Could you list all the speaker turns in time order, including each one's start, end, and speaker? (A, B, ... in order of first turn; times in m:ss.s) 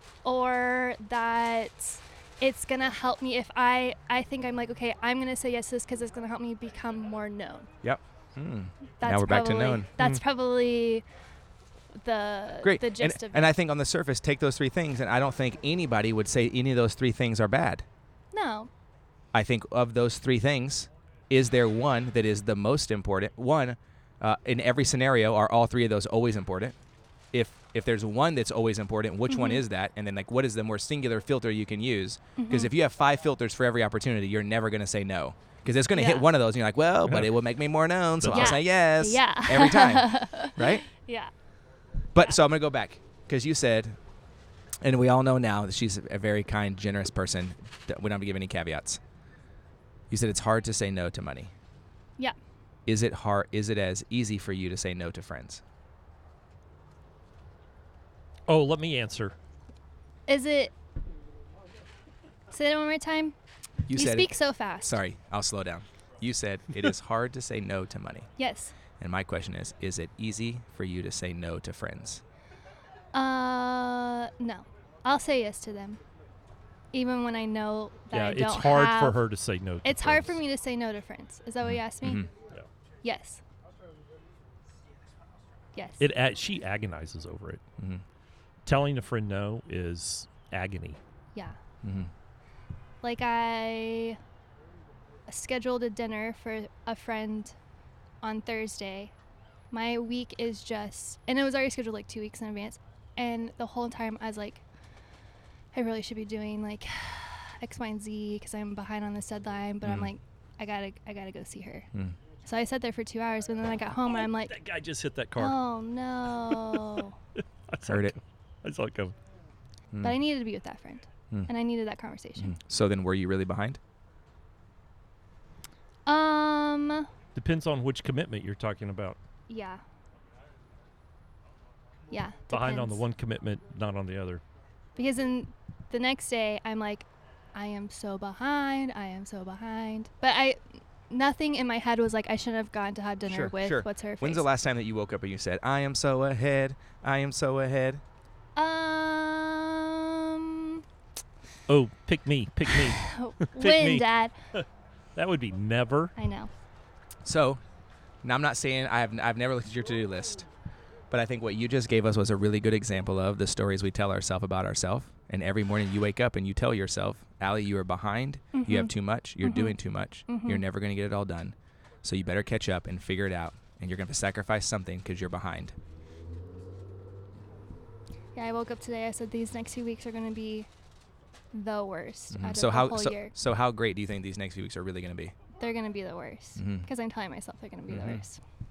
0:00.2-0:07.7 A
0:07.8-0:09.9 B
0:09.0-0:11.0 A
0:12.0-0:13.5 A
0:12.6-0:17.8 B
0:18.3-0:18.7 A
0:19.3-0:26.8 B
0:27.3-0:40.9 B
0:29.3-0:29.6 A
0:32.4-0:32.7 A
0:35.9-0:36.3 A
0:38.2-0:38.6 C
0:38.3-0:41.3 A
0:42.1-0:44.0 B
0:44.8-0:49.0 B
0:50.1-0:51.5 B
0:52.9-0:55.6 B
0:58.5-0:59.4 C
1:00.3-1:00.7 A
1:02.5-1:03.4 A
1:03.9-1:08.3 B
1:03.9-1:05.0 A
1:08.4-1:08.7 A
1:09.0-1:12.2 B
1:13.1-1:16.0 A
1:16.9-1:19.2 A
1:18.1-1:20.4 C
1:19.8-1:22.3 A
1:21.6-1:22.3 B
1:23.0-1:23.4 A
1:25.8-1:26.1 A
1:26.0-1:27.6 C
1:27.8-1:28.0 B
1:28.7-1:31.0 C
1:31.8-1:32.1 B
1:33.0-1:34.2 A
1:35.3-1:37.6 A
1:38.2-1:39.1 A
1:39.7-1:44.6 A
1:45.7-1:51.9 A
1:49.8-1:50.1 B
1:52.4-1:54.6 A
1:54.2-1:55.6 C
1:55.4-1:57.2 A
1:56.5-1:57.0 C
1:57.7-1:59.1 C
1:57.9-1:58.2 B
1:59.9-2:00.2 B
2:00.0-2:02.6 A
2:02.4-2:03.8 B
2:06.1-2:07.1 A
2:07.4-2:09.2 C
2:09.5-2:09.8 A
2:12.1-2:13.0 A
2:12.5-2:14.4 C
2:15.0-2:24.5 A
2:23.3-2:28.0 B
2:28.6-2:30.8 A
2:31.7-2:36.1 C
2:32.7-2:34.3 A
2:36.2-2:36.5 A
2:37.2-2:37.6 B
2:38.2-2:40.5 B
2:41.1-2:55.8 B
2:48.5-2:49.8 A
2:50.3-2:50.6 A
2:58.4-3:00.7 A
3:01.5-3:03.4 A
3:02.3-3:05.4 B
3:05.6-3:08.4 A
3:06.6-3:06.9 B
3:07.9-3:08.2 B